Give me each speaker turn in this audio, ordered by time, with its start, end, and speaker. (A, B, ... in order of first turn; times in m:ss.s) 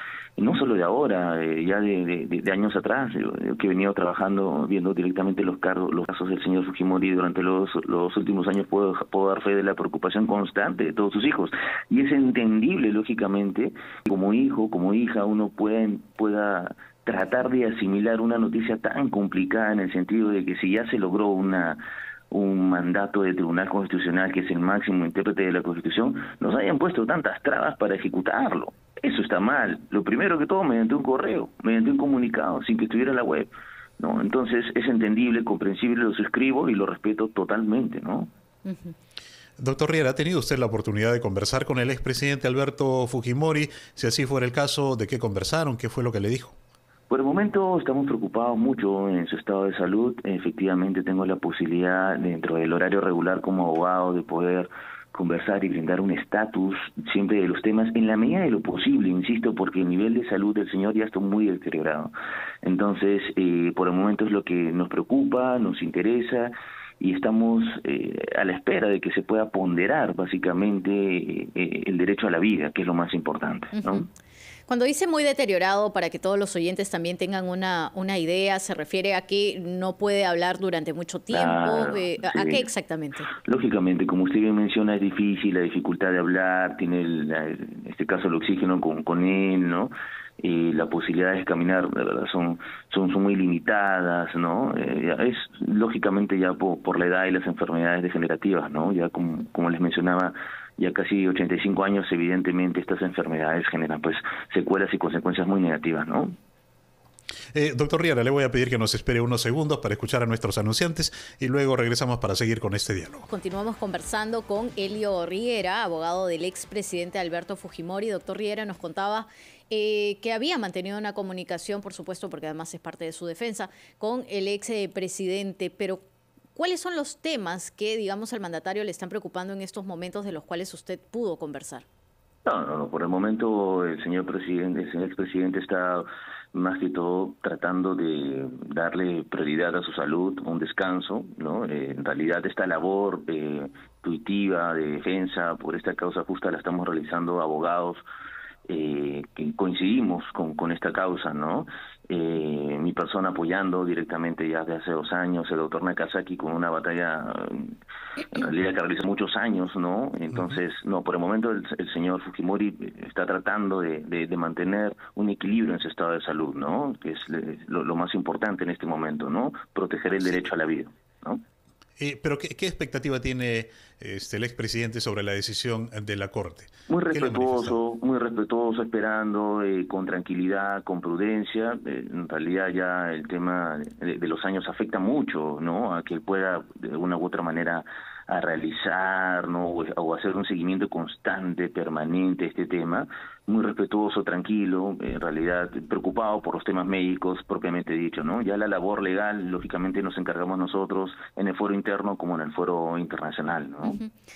0:00.4-0:38.3 A
0:38.6-0:38.9 B
0:39.6-0:46.6 C
0:47.1-1:02.1 A
1:02.6-1:14.0 A
1:13.8-1:14.0 B
1:14.7-1:23.3 B
1:21.3-1:22.7 A
1:23.4-1:46.4 A
1:47.5-1:53.3 C
1:53.3-2:06.0 B
2:06.5-2:11.8 B
2:12.4-2:28.0 A
2:28.7-2:37.7 A
2:38.2-2:51.4 A
2:52.0-2:57.7 C
2:56.9-3:24.0 A